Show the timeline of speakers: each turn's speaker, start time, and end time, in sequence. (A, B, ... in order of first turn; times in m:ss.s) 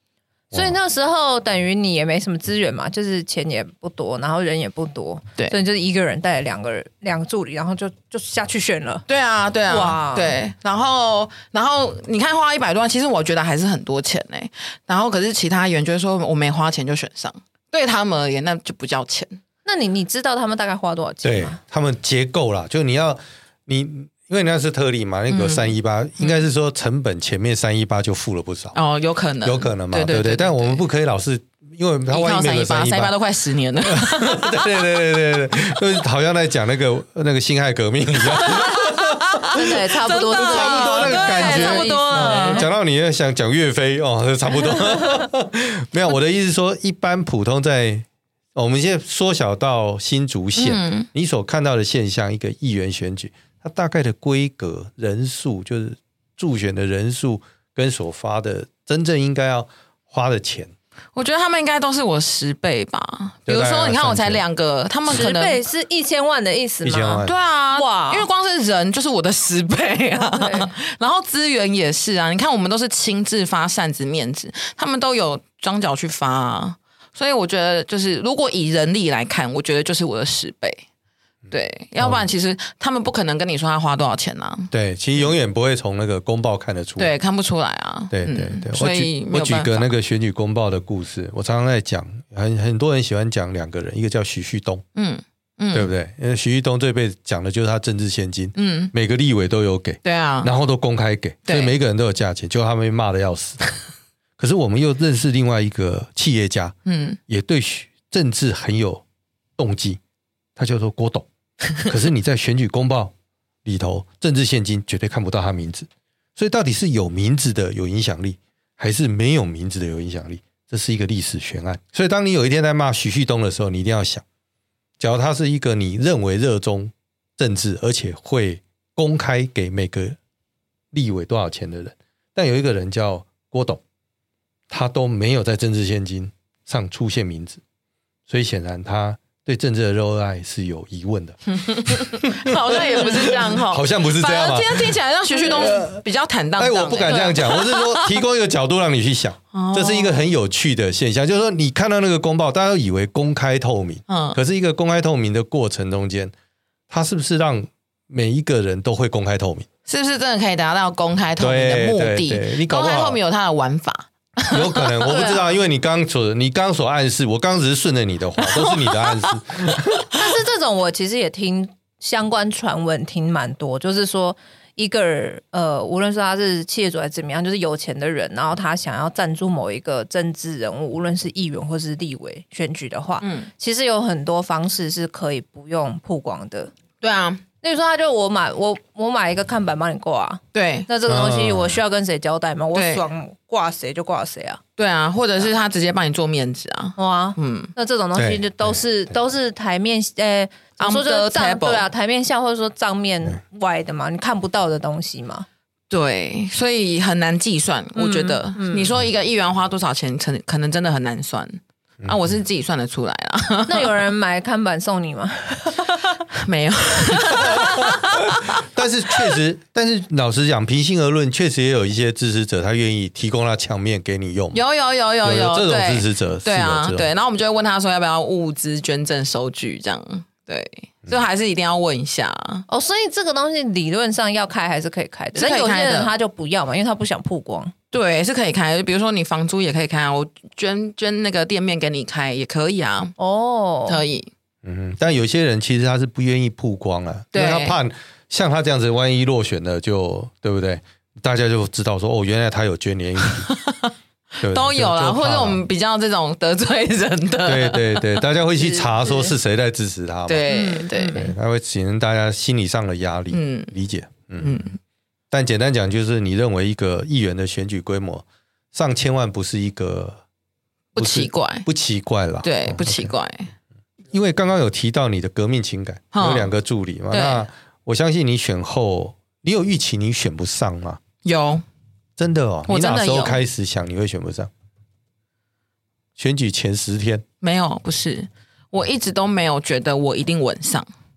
0:00.5-0:09.0 A
0:09.1-0:19.4 B
0:09.7-0:10.4 A
0:19.6-0:21.6 A
0:21.2-0:28.8 C
0:25.3-0:26.4 B
0:28.7-0:30.8 B
0:29.4-0:33.1 C
0:32.1-0:34.6 B
0:33.9-0:39.6 C
0:38.3-0:42.7 B
0:39.5-0:42.7 A
0:40.3-1:00.7 C
0:50.6-0:51.1 B
1:01.2-1:05.6 B
1:03.5-1:04.4 C
1:05.1-1:08.3 A
1:06.8-1:07.3 C
1:07.2-1:20.8 B
1:10.2-1:10.7 A
1:21.5-1:24.7 B
1:24.7-1:27.1 C
1:27.0-1:29.9 B
1:28.1-1:34.8 C
1:35.0-1:35.9 B
1:35.7-1:43.6 C
1:38.6-1:38.9 B
1:40.0-1:40.5 B
1:41.5-1:41.7 B
1:44.4-1:46.8 C
1:46.9-1:47.2 B
1:47.3-1:49.0 C
1:49.6-1:50.0 C
1:50.6-1:51.3 C
1:51.8-1:53.1 C
1:53.6-2:04.2 C
2:05.0-2:10.2 C
2:10.9-2:13.8 C
2:14.7-2:17.6 C
2:18.3-2:26.0 C
2:21.5-2:28.2 B
2:26.6-2:36.3 C
2:29.5-2:30.2 B
2:34.1-2:34.4 B
2:36.9-2:39.7 C
2:39.9-2:45.4 B
2:41.4-2:43.2 C
2:44.5-2:50.1 C
2:48.5-2:49.3 B
2:50.2-3:06.7 A
3:03.2-3:03.5 B
3:07.0-3:07.4 B
3:07.6-3:14.6 A
3:10.5-3:10.9 B
3:11.1-3:11.8 C
3:12.7-3:13.0 B
3:14.8-3:17.7 B
3:17.0-3:25.5 A
3:18.2-3:18.8 C
3:20.8-3:21.9 B
3:25.9-3:33.9 B
3:28.0-3:28.9 A
3:33.7-3:36.1 A
3:36.3-3:38.5 B
3:37.4-3:37.7 C
3:37.4-3:37.8 A
3:38.4-3:44.6 C
3:44.5-3:52.6 B
3:45.2-3:47.1 C
3:52.7-3:57.7 A
3:55.4-3:56.1 B
3:57.9-4:03.1 B
4:03.2-4:04.0 A
4:03.9-4:04.3 B
4:04.6-4:13.5 C
4:07.3-4:07.8 B
4:13.3-4:18.2 B
4:14.4-4:15.6 C
4:17.4-4:20.5 C
4:19.0-4:19.3 A
4:20.3-4:21.3 B
4:20.5-4:21.3 A
4:21.1-4:24.7 C
4:23.3-4:23.7 B
4:24.4-4:24.8 B
4:25.3-4:30.2 C
4:31.0-4:31.7 B
4:31.0-4:33.1 C
4:32.4-4:33.5 B
4:34.1-4:41.0 C
4:36.1-4:36.5 B
4:37.1-4:37.5 B
4:41.2-4:41.6 B
4:42.2-4:44.5 C
4:42.7-4:43.4 B
4:46.2-4:47.2 C
4:47.4-4:50.9 B